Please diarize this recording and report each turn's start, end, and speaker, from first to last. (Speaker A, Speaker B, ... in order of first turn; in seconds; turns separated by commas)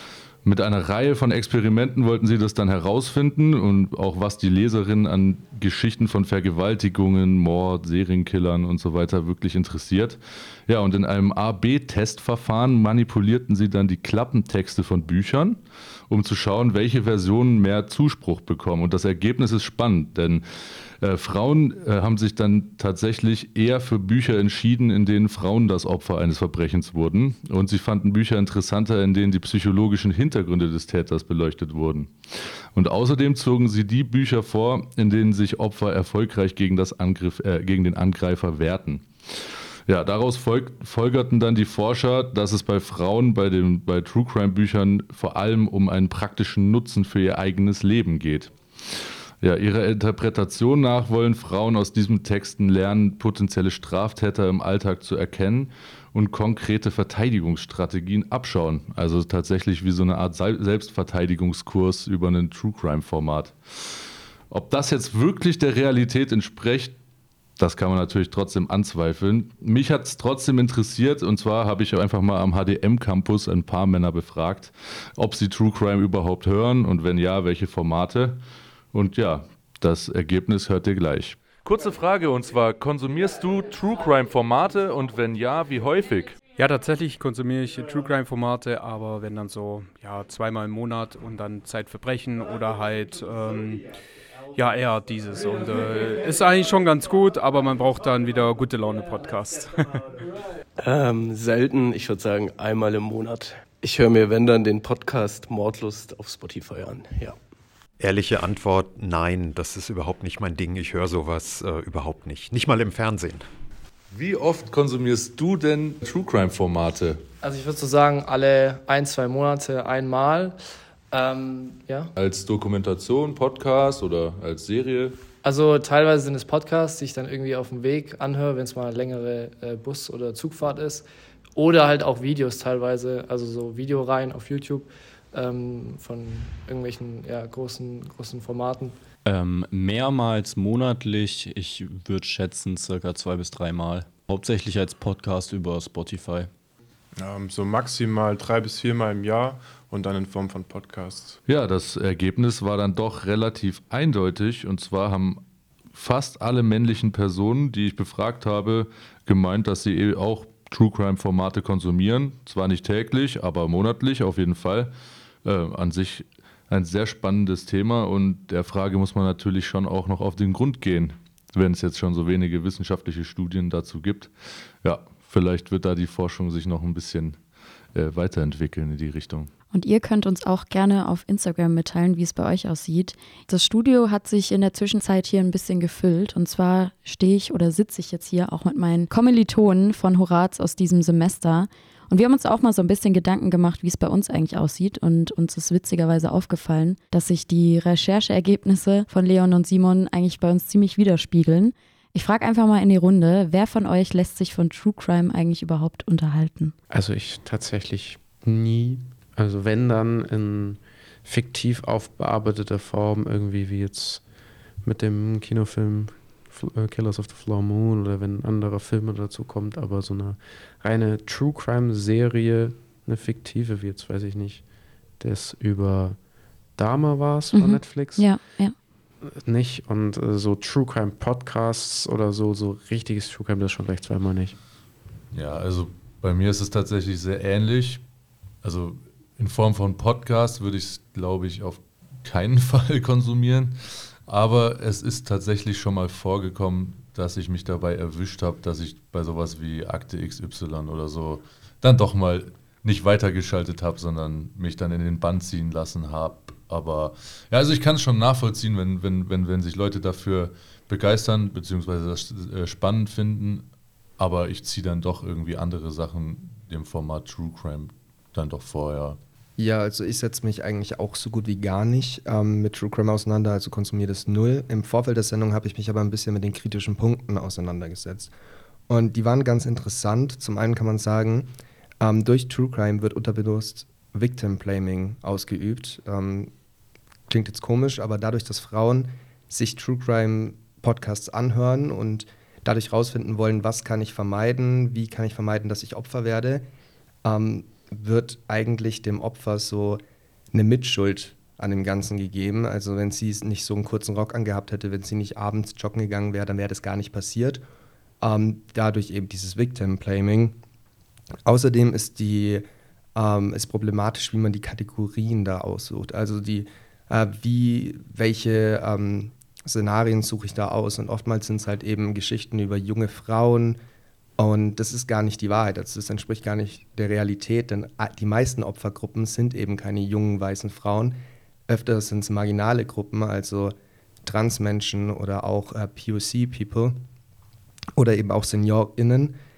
Speaker A: 0.5-20.4, Speaker A: 21.0-67.0, Speaker A: 67.6-78.4, Speaker A: 78.9-86.4, Speaker B: 86.5-93.8, Speaker B: 94.5-100.1, Speaker C: 100.8-107.4, Speaker D: 108.0-113.5, Speaker A: 114.1-117.2, Speaker E: 117.4-120.6, Speaker E: 121.1-122.1, Speaker A: 122.2-125.2, Speaker E: 125.4-139.0, Speaker F: 139.2-146.5, Speaker G: 147.2-151.4, Speaker A: 151.5-155.4, Speaker A: 155.9-164.9, Speaker A: 165.4-177.4, Speaker A: 177.9-179.5, Speaker H: 179.7-206.8, Speaker I: 206.9-214.2, Speaker I: 214.8-224.6, Speaker I: 225.2-226.2, Speaker I: 226.8-228.3, Speaker H: 227.5-228.8, Speaker I: 229.3-234.6, Speaker A: 235.3-238.0, Speaker A: 238.6-263.7, Speaker A: 264.2-269.2, Speaker J: 269.6-278.3, Speaker J: 278.9-281.5, Speaker J: 282.0-286.5, Speaker J: 287.3-296.6, Speaker J: 297.2-300.0, Speaker J: 300.5-307.6, Speaker J: 308.2-310.6, Speaker J: 311.4-323.8, Speaker J: 324.4-331.2, Speaker J: 331.7-336.9, Speaker J: 338.0-339.4